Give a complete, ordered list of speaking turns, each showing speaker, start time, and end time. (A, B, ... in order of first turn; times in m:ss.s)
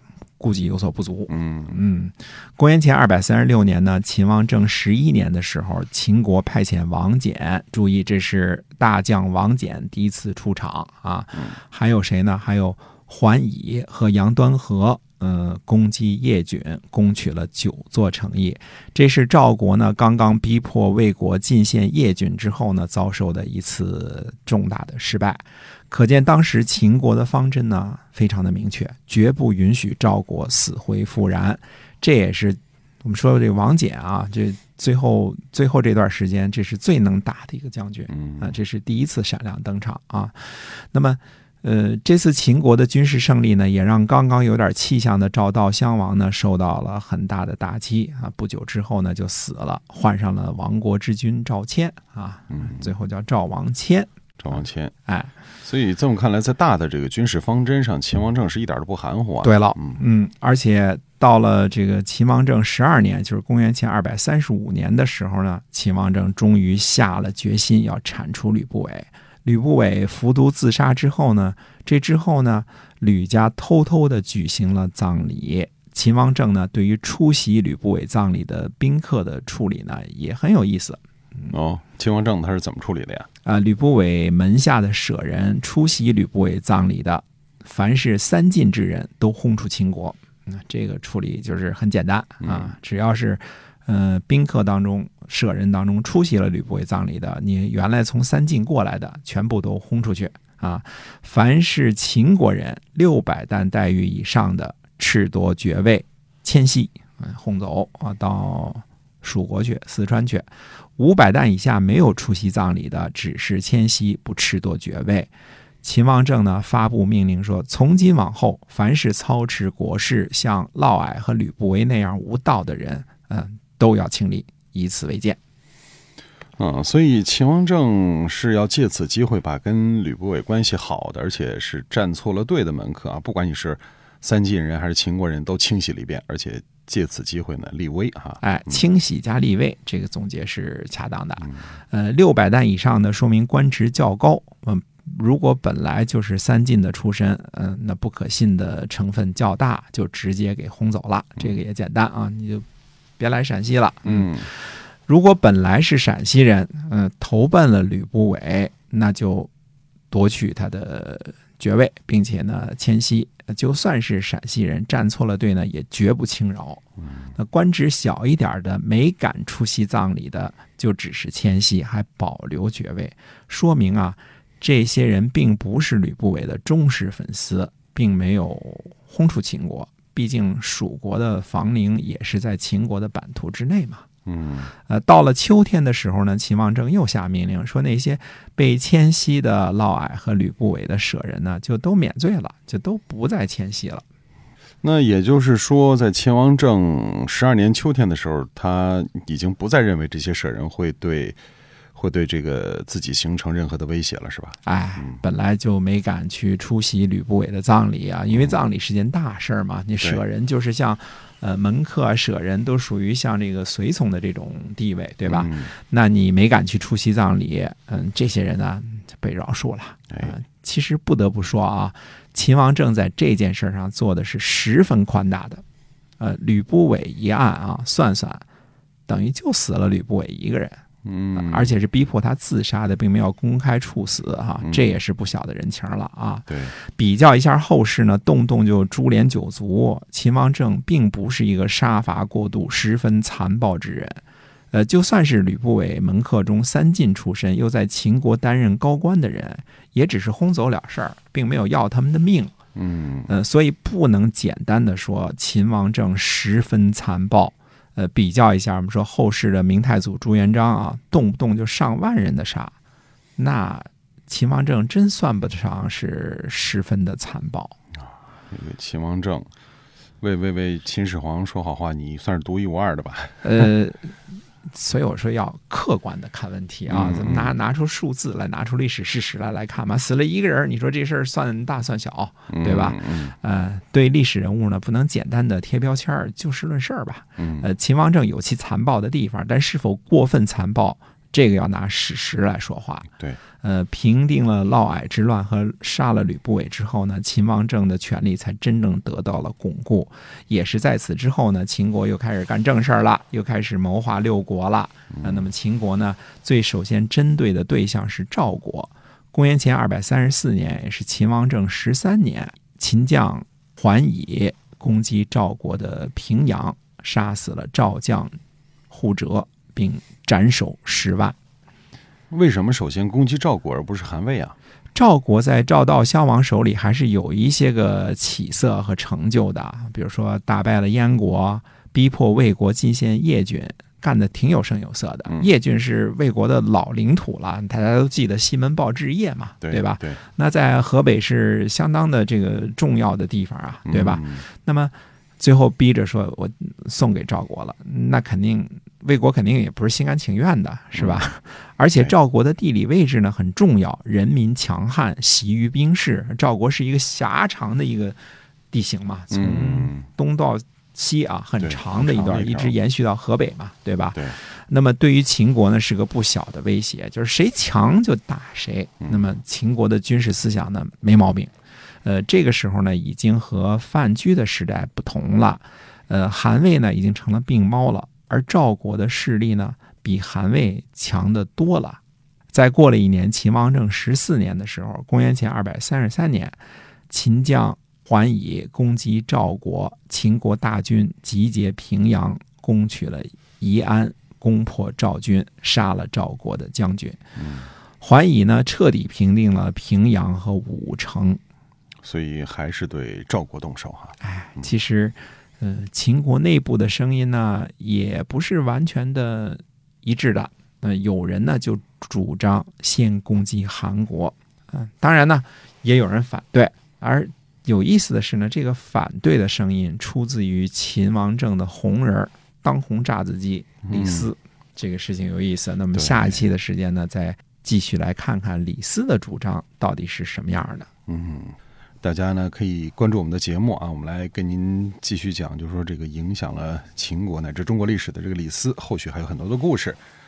0:00.4-0:54.1 A
0:01.3-0:01.8 B
0:38.1-0:38.4 B
0:54.4-0:54.9 B
0:55.1-0:55.3 A
0:55.6-1:00.0 B
0:59.4-1:21.0 A
1:21.5-1:23.3 B
1:23.4-1:55.3 A
1:32.4-1:32.7 B
1:55.8-2:05.4 A
2:06.6-2:18.8 B
2:18.4-2:32.6 A
2:33.2-2:34.5 A
2:34.0-2:34.5 B
2:35.1-2:39.5 A
2:40.1-2:46.8 A
2:47.4-3:04.1 A
3:04.3-3:04.7 B
3:04.9-3:14.0 A
3:14.8-3:21.4 B
3:22.0-3:25.2 B
3:24.6-3:45.6 A
3:28.3-3:28.6 B
3:35.3-3:35.7 B
3:46.2-3:48.4 A
3:49.1-3:50.8 A
3:51.0-3:51.8 B
3:51.3-4:04.2 A
3:54.6-3:55.0 B
3:56.5-3:56.7 B
4:04.7-4:12.5 A
4:12.8-4:13.3 B
4:13.3-4:22.7 A
4:23.4-4:27.8 A
4:28.5-4:29.5 B
4:30.2-4:33.7 B
4:33.4-4:34.1 A
4:34.7-4:53.1 A
4:36.9-4:37.6 B
4:42.5-4:43.4 B
4:47.4-4:47.7 B
4:53.6-5:18.4 A
5:05.1-5:05.5 B
5:18.9-5:21.4 A
5:22.3-5:24.6 B
5:25.0-5:58.2 A
5:39.6-5:40.2 B
5:43.9-5:44.4 B
5:51.0-5:51.3 B
5:58.7-6:11.5 A
5:59.3-6:00.1 B
6:01.6-6:02.8 B
6:09.0-6:09.3 B
6:12.0-6:22.0 A
6:22.5-6:26.6 A
6:27.1-6:37.2 A
6:37.4-6:37.7 B
6:38.0-6:41.4 A
6:42.0-6:44.7 B
6:44.2-7:10.9 A
7:03.9-7:04.3 B
7:05.9-7:06.4 B
7:11.1-7:20.0 B